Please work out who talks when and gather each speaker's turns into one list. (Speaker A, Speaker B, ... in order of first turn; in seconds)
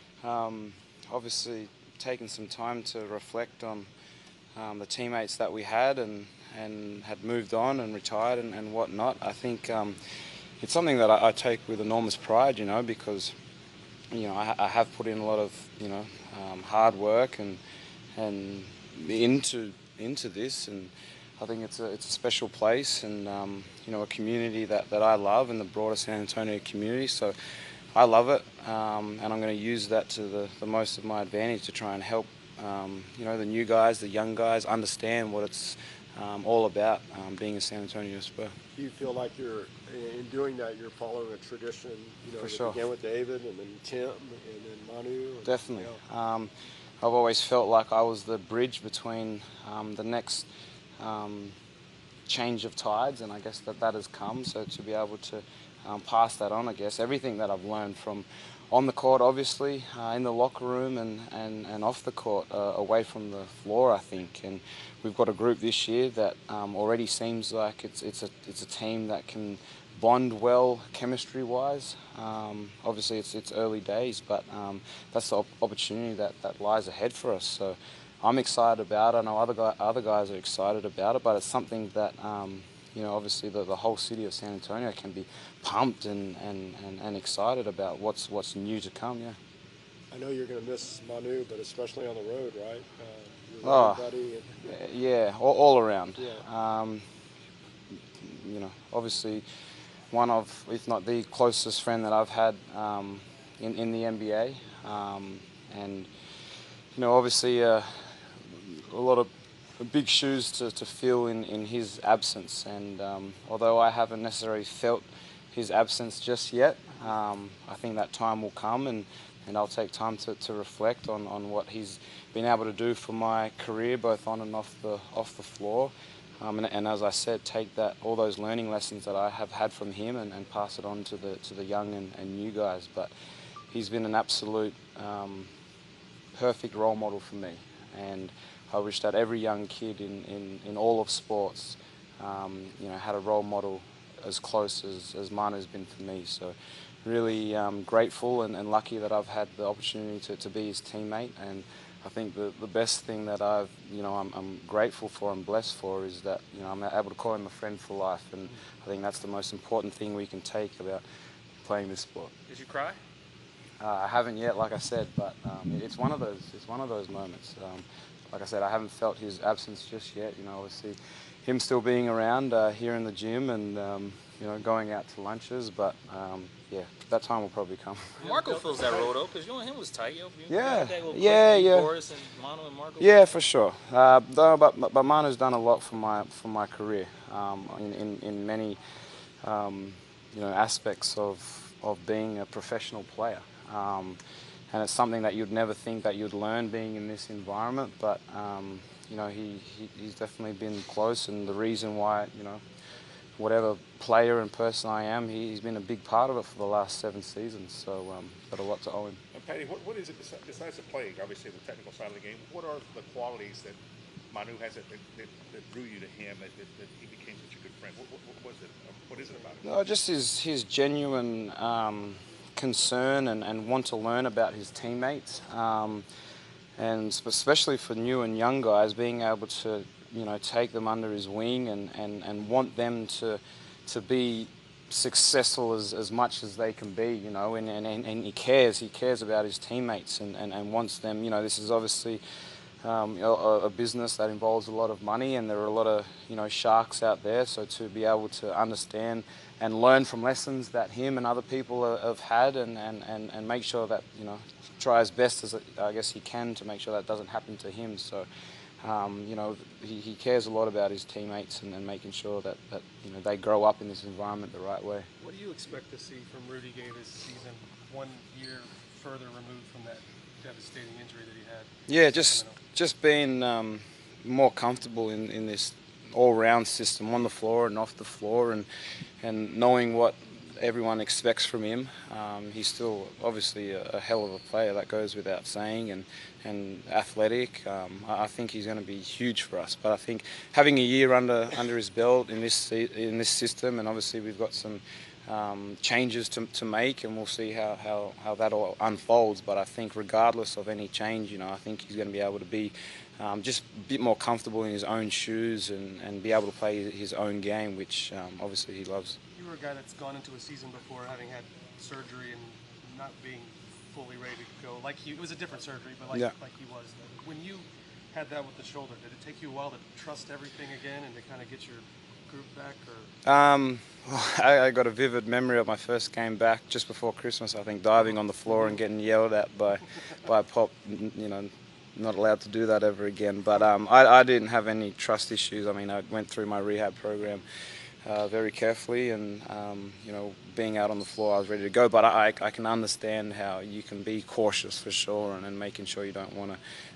Speaker A: 0.2-3.9, 4.5-10.0, 10.6-13.3, 14.1-17.6, 18.1-27.3, 27.9-38.5, 42.4-42.8, 45.4-50.5, 51.0-51.5, 52.3-89.4, 93.6-94.1, 94.6-97.0, 98.2-99.4, 100.1-106.1, 106.9-133.1, 133.7-135.5, 136.3-161.0, 161.6-162.3, 163.8-178.1, 180.5-181.9, 183.0-188.8, 189.4-194.2, 194.7-202.6, 203.4-209.2, 219.6-226.0, 226.8-242.2, 242.8-258.3, 258.8-265.1, 271.9-278.7, 279.2-309.2, 323.2-337.4, 338.0-346.6
Speaker B: 38.8-46.0, 90.1-94.6, 96.2-96.4
Speaker C: 162.5-163.0, 178.2-183.1
Speaker D: 178.2-179.1, 265.2-272.6, 309.3-323.1
Speaker E: 209.3-213.8, 214.3-219.7